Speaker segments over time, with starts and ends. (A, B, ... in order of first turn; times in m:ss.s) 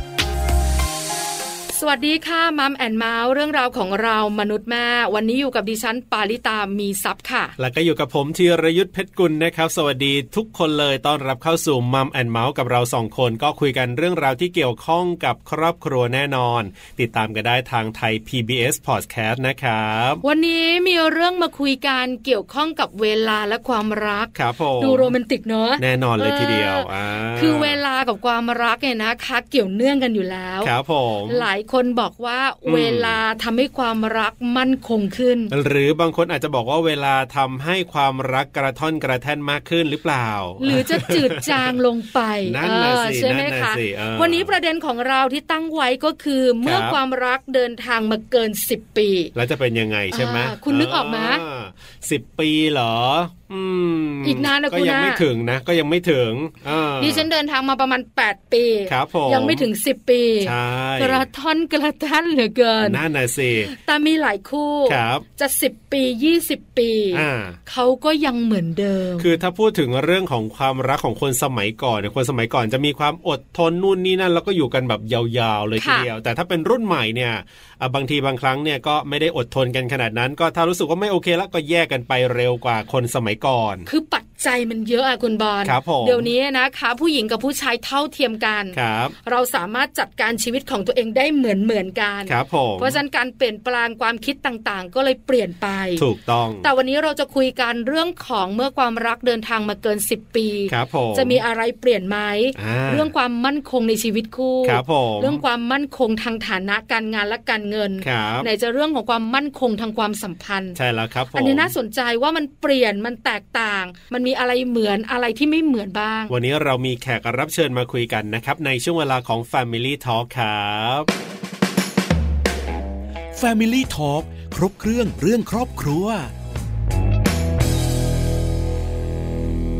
0:01.7-0:07.5 A
0:07.6-0:20.2 B
0:20.2-0:30.7 A
0:24.4-0:25.2 B
0:25.8-0:27.8 B
0:30.6-0:31.5 B
0:31.3-0:35.5 A
0:32.7-0:33.2 B
0:35.5-0:41.8 B
0:40.6-0:49.3 A
0:42.5-0:44.5 B
0:46.6-0:47.0 B
0:49.4-0:57.3 B
0:50.1-0:51.4 A
0:54.2-0:55.2 A
0:57.0-1:03.0 A
0:58.9-0:59.7 B
1:00.4-1:01.2 B
1:02.8-1:03.7 B
1:03.6-1:09.4 A
1:04.9-1:05.2 B
1:07.1-1:07.6 B
1:09.2-1:23.9 B
1:15.8-1:16.1 A
1:23.9-1:36.0 A
1:25.6-1:26.3 B
1:28.7-1:29.2 B
1:32.3-1:33.0 B
1:36.0-1:36.7 B
1:36.6-1:50.8 A
1:40.7-1:41.4 B
1:42.6-1:43.1 B
1:44.6-1:45.4 B
1:48.0-1:48.5 B
1:50.8-1:51.7 B
1:51.3-1:56.3 A
1:56.3-2:01.1 B
2:03.4-2:06.3 C